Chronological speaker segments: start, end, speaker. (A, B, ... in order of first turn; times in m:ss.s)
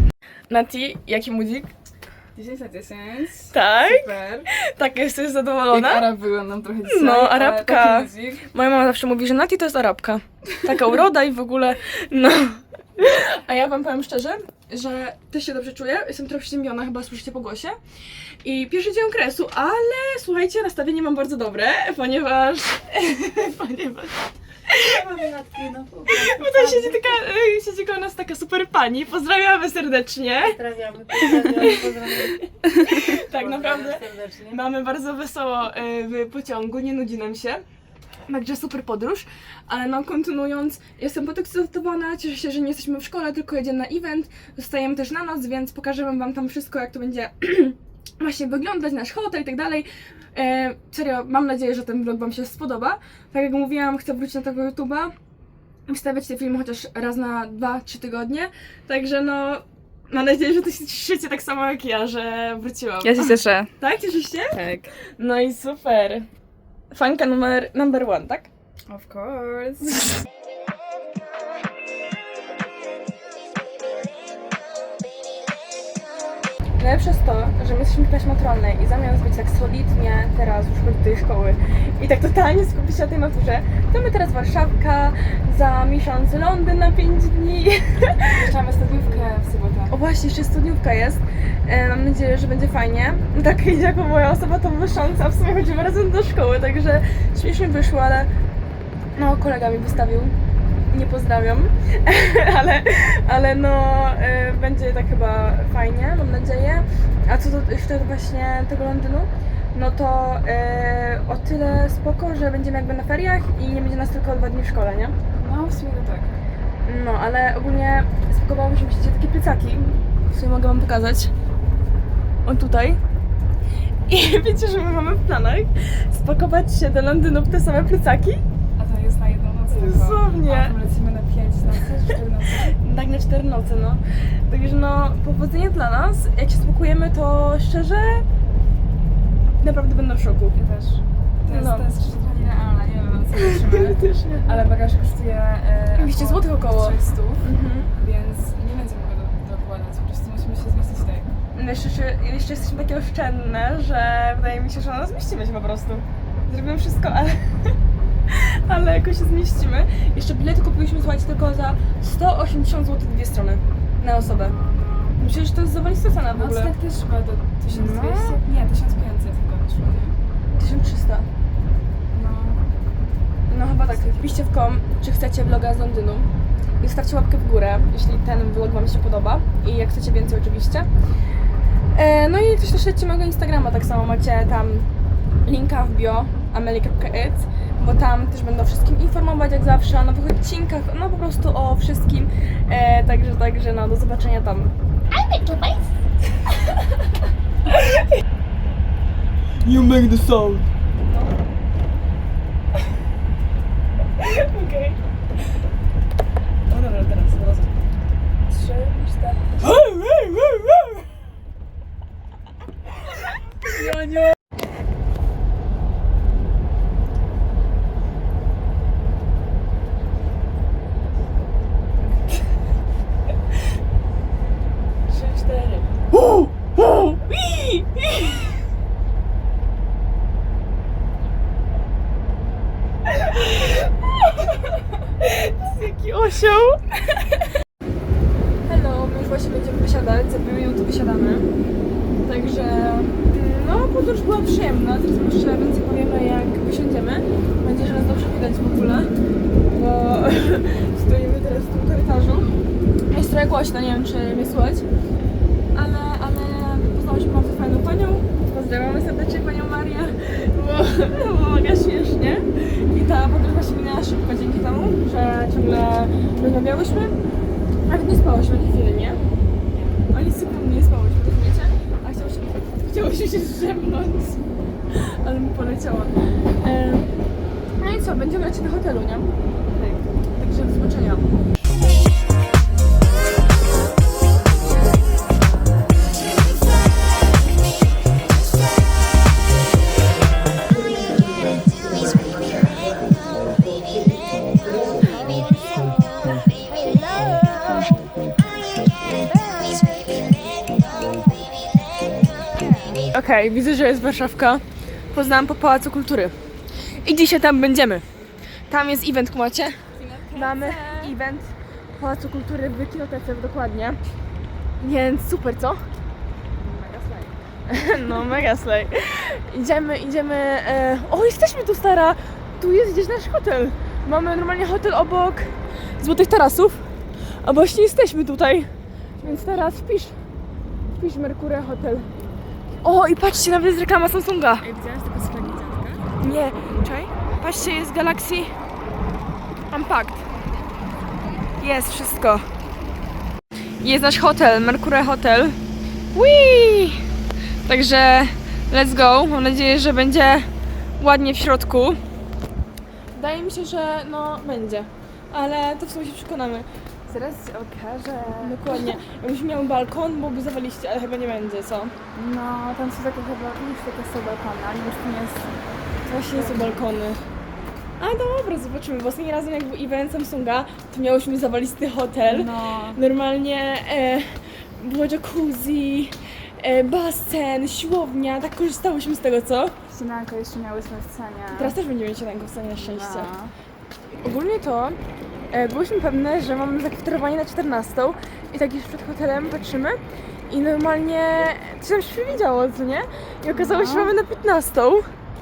0:00.5-0:01.7 A
0:02.3-0:04.5 B
0:03.5-0:06.1 A
0:05.7-0:08.5 B
0:06.8-0:17.8 A
0:18.4-0:25.0 A
0:24.8-0:27.0 C
0:26.1-0:30.6 A
0:30.4-0:32.4 C
0:31.2-0:37.6 A
0:33.2-0:34.6 C
0:38.3-0:55.1 A
0:55.9-1:03.3 A
1:03.0-1:03.7 B
1:03.8-1:04.6 A
1:04.5-1:04.9 B
1:05.2-1:06.3 A
1:06.9-1:08.5 A
1:08.9-1:09.9 B
1:16.8-1:28.4 A
1:28.3-1:29.9 B
1:29.9-1:38.3 A
1:39.2-1:40.3 A
1:40.9-1:55.1 A
1:55.3-1:56.3 B
1:56.8-2:01.3 A
2:02.4-2:03.0 A
2:04.1-2:08.4 A
2:08.8-2:12.8 B
2:09.7-2:10.7 A
2:12.7-2:18.2 A
2:19.6-2:20.6 A
2:20.5-2:27.4 B
2:21.4-2:21.9 A
2:23.4-2:24.6 A
2:26.0-2:27.9 A
2:28.0-2:31.3 B
2:31.5-2:37.7 A
2:38.3-2:44.5 A
2:44.3-2:45.1 B
2:45.2-2:46.7 A
2:46.3-2:50.2 B
2:47.7-2:48.4 A
2:50.5-2:51.3 A
2:52.1-2:52.6 B
2:53.5-3:00.9 A
3:01.9-3:04.9 A
3:05.4-3:14.7 A
3:19.6-3:20.7 A
3:24.2-3:25.0 A
3:26.7-3:27.8 A
3:28.5-3:29.6 B
3:29.6-3:31.0 A
3:33.6-3:34.3 B
3:45.1-3:46.0 A
3:46.8-3:48.4 A
3:53.3-3:53.8 A
3:54.4-3:54.6 A
3:55.2-3:56.8 A
3:58.6-4:01.5 A
4:02.2-4:09.1 A
4:09.7-4:12.5 A
4:13.1-4:14.8 A
4:15.7-4:27.2 A
4:27.8-4:29.2 A
4:30.1-4:34.4 A
4:34.9-4:37.1 A
4:37.8-4:39.3 A
4:39.7-4:40.0 B
4:40.4-4:41.2 A
4:57.2-4:57.9 A
5:00.8-5:01.4 B
5:02.6-5:02.9 B
5:03.1-5:06.4 A
5:06.9-5:08.0 A
5:08.7-5:09.8 A
5:10.0-5:11.1 B
5:10.3-5:14.0 A
5:14.8-5:15.8 A
5:16.6-5:17.3 B
5:17.7-5:26.9 A
5:27.4-5:28.7 A
5:29.2-5:29.8 B
5:29.2-5:30.2 A
5:30.9-5:32.1 A
5:32.8-5:34.6 A
5:34.6-5:36.1 B
5:36.2-5:38.5 A
5:39.7-5:40.2 A
5:41.6-5:42.4 A
5:43.8-5:45.6 A
5:46.1-5:47.0 A
5:47.6-5:52.0 A
5:53.1-5:56.6 A
5:57.1-5:58.9 B
5:58.4-6:01.9 A
6:02.1-6:05.5 B
6:06.0-6:07.2 A
6:06.3-6:06.7 B
6:08.0-6:19.8 A
6:12.2-6:13.0 B
6:19.9-6:21.8 B
6:21.5-6:23.3 A
6:22.8-6:23.5 B
6:24.2-6:25.0 A
6:25.5-6:35.1 A
6:33.5-6:34.1 B